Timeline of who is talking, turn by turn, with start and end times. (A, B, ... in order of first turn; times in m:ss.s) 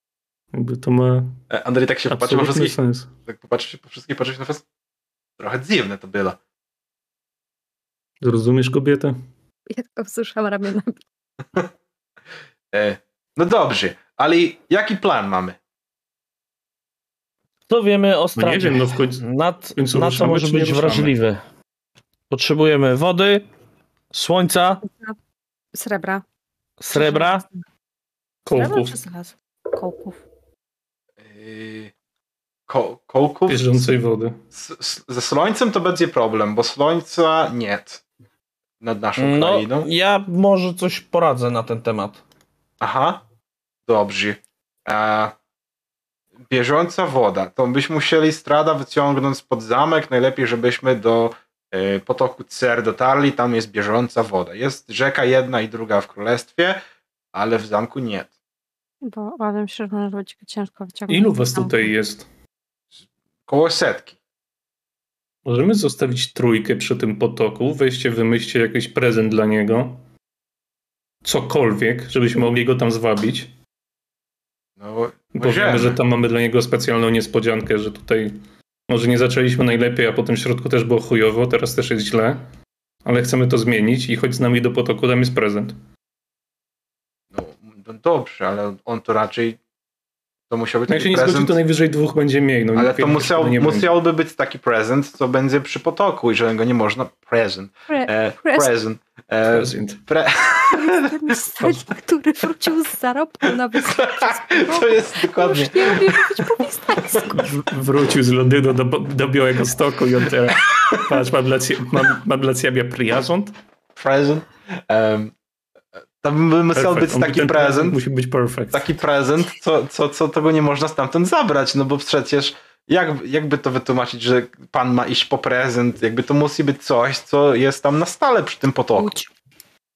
0:00.5-0:01.4 A
0:01.5-0:04.6 B
0:02.1-0:03.1 A
0:05.4-0:06.4 B
0:08.2-0:09.1 A
0:09.7-0:11.0 C
0:12.7-0:15.6 B
0:17.7-0:21.4 D
0:18.4-0:21.1 A
0:22.3-0:23.5 D
0:24.1-0:24.8 D
0:24.8-0:25.2 C
0:25.7-0:26.2 C
0:26.8-0:27.4 D
0:26.9-0:27.6 C
0:28.4-0:29.0 A
0:28.5-0:30.2 C
0:31.2-0:31.9 B
0:32.7-0:33.9 B
0:33.5-0:34.4 A
0:34.6-0:38.0 B
0:38.8-0:39.9 B
0:39.2-0:42.2 D
0:42.8-0:43.2 B
0:43.9-0:45.4 B
0:46.5-0:56.8 B
0:57.3-0:58.3 B
0:59.0-1:01.9 C
1:01.1-1:02.3 A
1:03.5-1:04.2 B
1:05.5-1:10.0 A
1:11.2-1:13.5 A
1:14.8-1:16.0 B
1:15.4-1:22.5 A
1:23.0-1:25.8 A
1:27.3-1:29.6 B
1:30.5-1:31.6 B
1:30.9-1:33.9 A
1:32.7-1:41.1 B
1:37.9-1:38.7 C
1:39.5-1:40.0 A
1:40.7-1:47.5 C
1:43.8-1:46.4 B
1:47.3-1:53.6 A
1:50.7-1:51.2 B
1:54.0-1:55.3 B
1:56.2-1:58.0 B
1:56.7-1:58.9 A
1:58.7-2:09.1 B
2:09.0-2:09.3 C